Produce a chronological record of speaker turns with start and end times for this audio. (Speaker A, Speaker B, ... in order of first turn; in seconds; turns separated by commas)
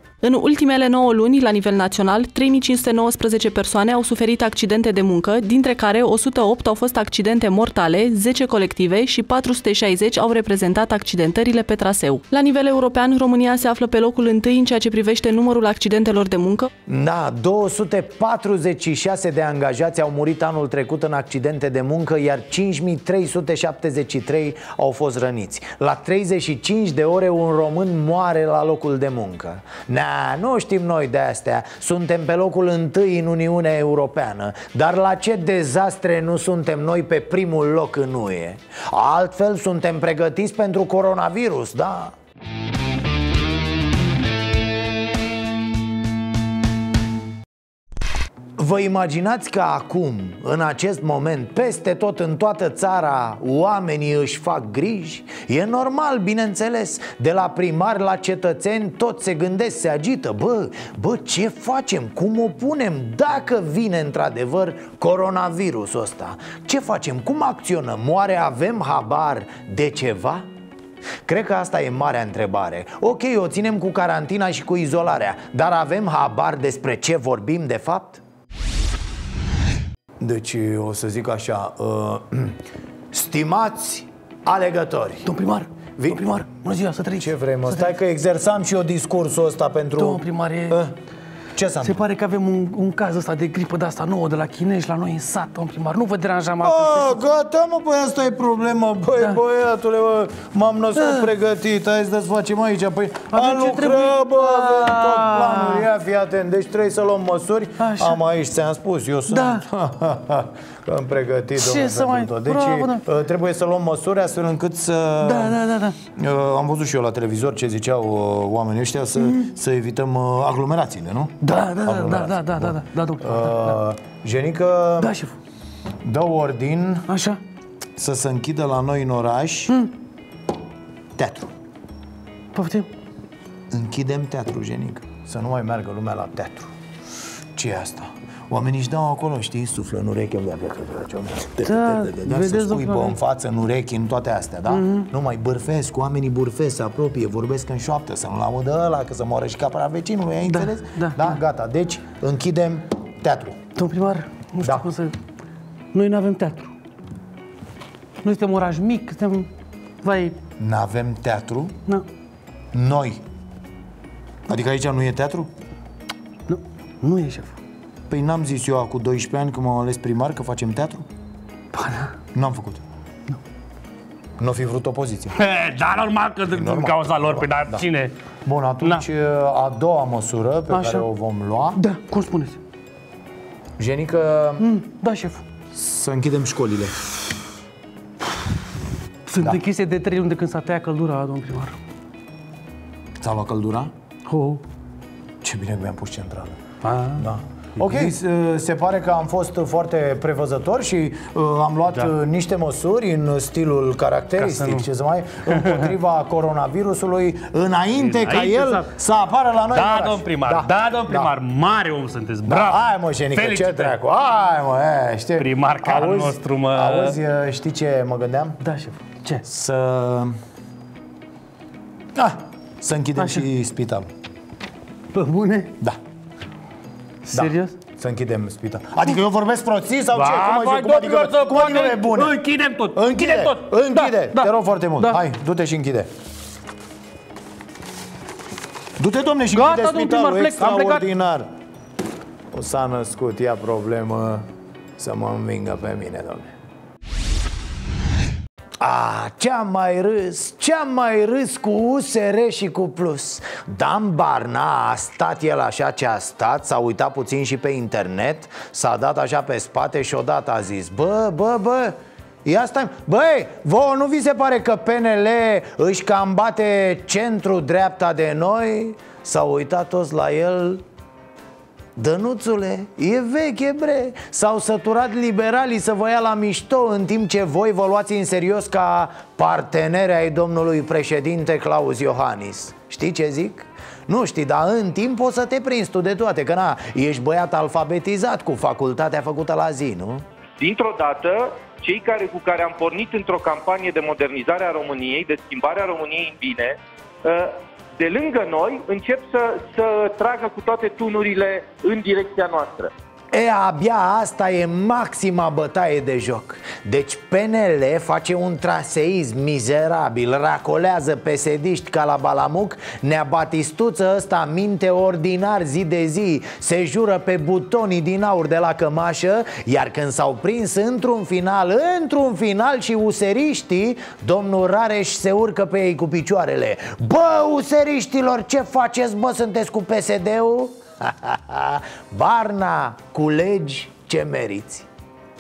Speaker A: 0.2-16.7, Speaker B: 16.9-42.1, Speaker B: 48.6-70.5, Speaker B: 71.2-78.2, Speaker B: 80.2-82.6, Speaker B: 83.1-85.3, Speaker C: 85.2-87.9, Speaker B: 86.0-86.3, Speaker B: 87.2-90.9, Speaker C: 90.0-90.8, Speaker B: 91.5-92.0, Speaker C: 91.8-97.2, Speaker B: 96.6-115.6, Speaker C: 101.0-101.2, Speaker C: 103.3-105.8, Speaker C: 107.8-108.2, Speaker C: 109.3-109.7, Speaker C: 111.6-113.0, Speaker C: 115.2-115.9, Speaker B: 116.1-125.1, Speaker C: 121.4-123.8, Speaker C: 125.0-125.3, Speaker B: 126.0-127.1, Speaker C: 127.1-127.4, Speaker B: 128.0-129.7, Speaker B: 131.2-131.5, Speaker C: 132.5-132.9, Speaker B: 133.7-136.7, Speaker B: 137.6-153.6, Speaker C: 141.6-143.2, Speaker C: 144.7-145.1, Speaker C: 150.5-151.3, Speaker C: 153.8-155.2, Speaker B: 154.6-154.9, Speaker C: 155.9-156.7, Speaker C: 158.2-159.5, Speaker C: 160.0-160.4, Speaker B: 160.6-161.7, Speaker B: 162.7-163.2, Speaker B: 164.5-165.5, Speaker C: 166.5-167.6, Speaker B: 168.1-171.1, Speaker C: 171.7-172.1, Speaker B: 172.3-172.8, Speaker B: 174.4-175.4, Speaker C: 175.3-178.1, Speaker B: 176.5-177.9, Speaker B: 178.4-181.8, Speaker C: 180.7-181.1, Speaker C: 181.8-182.6, Speaker B: 183.8-184.7, Speaker C: 184.6-185.4, Speaker B: 185.7-186.9, Speaker C: 189.3-191.7, Speaker B: 193.2-193.9, Speaker C: 194.3-194.6, Speaker B: 195.4-196.6, Speaker C: 196.8-197.2, Speaker B: 197.2-211.4, Speaker C: 197.8-198.1, Speaker C: 204.4-204.9, Speaker C: 205.5-205.9, Speaker C: 208.0-208.9, Speaker C: 209.7-212.8, Speaker B: 212.4-218.6, Speaker C: 213.3-213.9, Speaker C: 215.4-217.2, Speaker C: 218.6-219.4, Speaker B: 219.4-220.4, Speaker B: 222.1-224.1, Speaker C: 223.2-223.4, Speaker C: 225.1-225.7, Speaker C: 227.3-227.8, Speaker B: 227.3-232.4, Speaker C: 230.1-235.2, Speaker B: 232.9-236.1, Speaker B: 239.0-241.5, Speaker C: 239.5-241.0, Speaker B: 242.5-244.4, Speaker B: 245.0-246.5, Speaker B: 248.8-270.8, Speaker B: 271.9-290.2, Speaker D: 290.6-302.9, Speaker B: 303.3-334.9